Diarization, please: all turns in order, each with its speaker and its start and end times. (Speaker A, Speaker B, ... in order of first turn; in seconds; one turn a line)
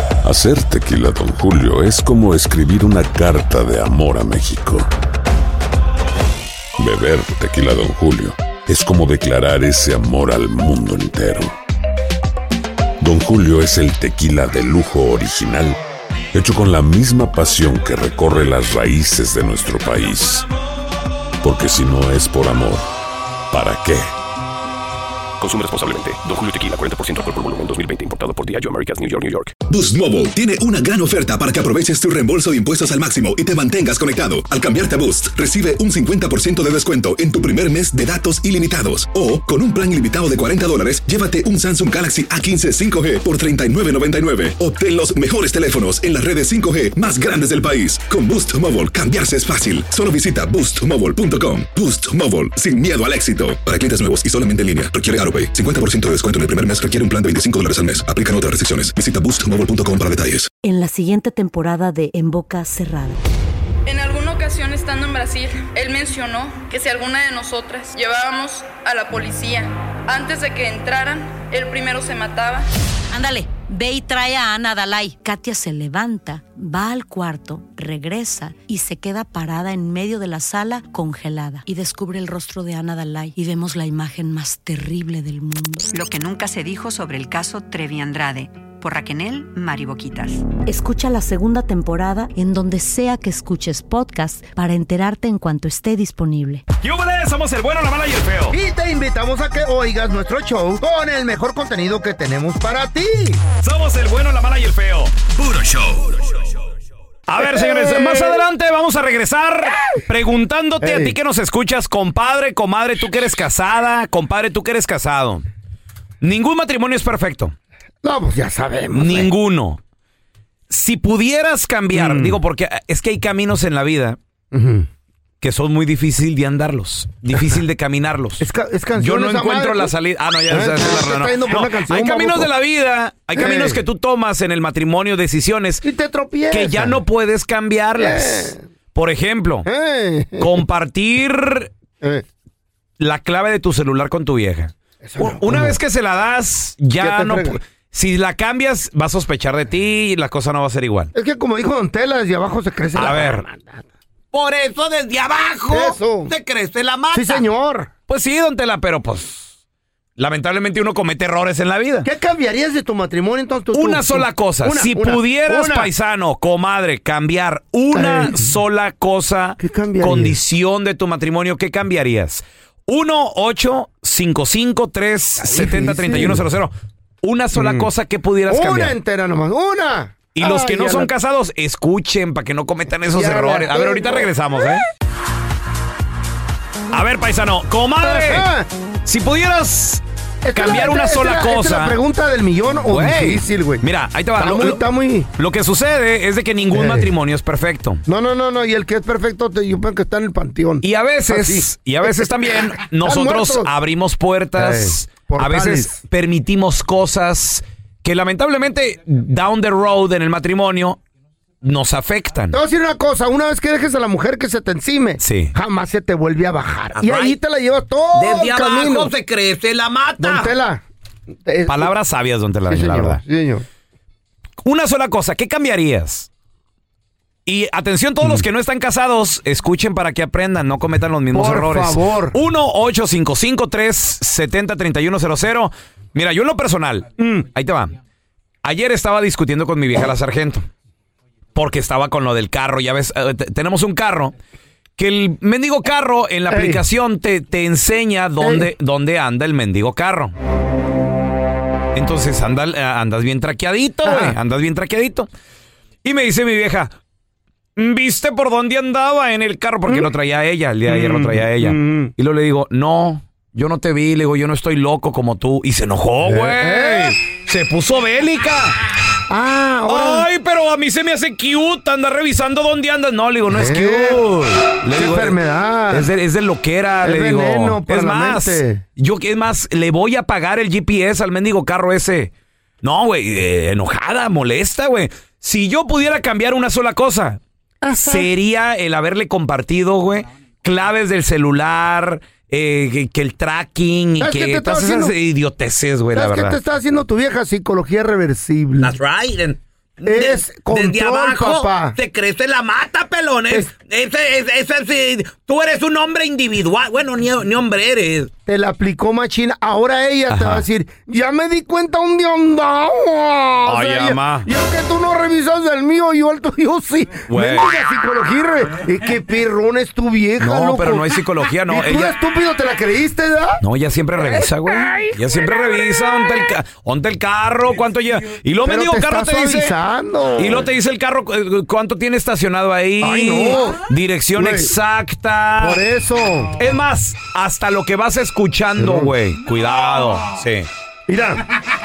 Speaker A: 0.2-4.9
Speaker A: 6.8-11.5
Speaker A: 13.0-15.8
Speaker A: 16.3-20.5
Speaker A: 21.4-22.9
Speaker A: 23.5-24.1
Speaker B: 25.4-29.6
Speaker C: 29.7-60.5
Speaker D: 60.6-63.2
Speaker E: 63.9-72.7
Speaker D: 73.1-85.9
Speaker F: 85.9-90.5
Speaker D: 90.7-96.6
Speaker G: 96.8-98.6
Speaker H: 98.5-103.4
Speaker G: 103.6-106.3
Speaker G: 107.3-115.4
Speaker H: 107.4-108.4
Speaker H: 110.8-111.1
Speaker G: 116.2-117.5
Speaker H: 118.0-119.3
Speaker G: 118.9-119.8
Speaker G: 120.7-124.2
Speaker H: 121.9-122.4
Speaker H: 124.5-124.9
Speaker G: 125.4-128.4
Speaker H: 128.4-129.9
Speaker G: 129.0-135.8
Speaker H: 130.5-132.5
Speaker H: 133.3-133.8
Speaker H: 135.8-137.0
Speaker G: 136.5-139.7
Speaker H: 138.0-138.6
Speaker H: 139.7-140.6
Speaker G: 140.4-141.7
Speaker G: 143.0-151.1
Speaker H: 145.0-145.8
Speaker H: 147.0-147.6
Speaker H: 151.1-153.9
Speaker G: 153.0-153.5
Speaker G: 154.3-157.4
Speaker H: 155.7-156.3
Speaker H: 157.1-157.9
Speaker G: 158.1-159.5
Speaker G: 160.2-162.1
Speaker H: 162.0-165.9
Speaker G: 163.7-178.9
Speaker H: 167.9-168.6
Speaker H: 169.6-170.4
Speaker H: 175.4-176.4
Speaker H: 177.5-177.9
Speaker H: 178.5-181.1
Speaker G: 180.3-184.8
Speaker H: 183.1-184.3
Speaker G: 186.9-188.5
Speaker H: 188.0-188.7
Speaker G: 189.1-192.0
Speaker H: 190.4-193.8
Speaker G: 192.9-194.8
Speaker H: 194.4-195.3
Speaker G: 195.4-198.0
Speaker H: 196.7-197.1
Speaker H: 198.1-201.7
Speaker G: 200.8-211.0
Speaker H: 203.0-203.7
Speaker H: 204.6-206.0
Speaker G: 211.6-212.6
Speaker H: 212.5-219.1
Speaker G: 215.2-215.5
Speaker G: 217.0-217.4
Speaker G: 218.1-220.5
Speaker H: 220.2-220.8
Speaker H: 221.4-221.9
Speaker G: 221.7-223.2
Speaker H: 222.7-223.6
Speaker G: 224.6-226.3
Speaker G: 227.5-238.0
Speaker H: 231.3-232.3
Speaker H: 237.2-237.5
Speaker G: 238.6-240.7
Speaker G: 241.6-244.3
Speaker G: 245.0-250.3
Speaker H: 246.5-246.8
Speaker H: 248.4-248.7
Speaker G: 251.9-255.3
Speaker H: 254.1-254.4
Speaker G: 256.0-256.9
Speaker G: 257.8-268.8
Speaker H: 260.9-262.1
Speaker H: 266.2-267.2
Speaker H: 269.3-270.3
Speaker G: 269.9-275.4
Speaker H: 273.5-274.2
Speaker H: 274.9-276.1
Speaker G: 275.9-282.3
Speaker H: 277.0-278.8
Speaker G: 282.8-287.4
Speaker H: 287.8-288.3
Speaker G: 288.0-296.6
Speaker H: 294.2-295.1
Speaker H: 296.1-298.9
Speaker G: 298.8-308.3
Speaker H: 300.0-302.0
Speaker H: 308.5-321.1
Speaker G: 310.3-310.7
Speaker G: 313.7-314.5
Speaker G: 317.3-317.7
Speaker G: 320.4-322.1
Speaker H: 321.7-323.6
Speaker G: 323.6-329.7
Speaker H: 324.2-325.1
Speaker H: 328.6-330.7
Speaker G: 330.4-335.8
Speaker H: 333.0-334.7
Speaker H: 335.6-336.6
Speaker G: 336.6-340.7
Speaker H: 338.8-339.1
Speaker H: 341.1-341.4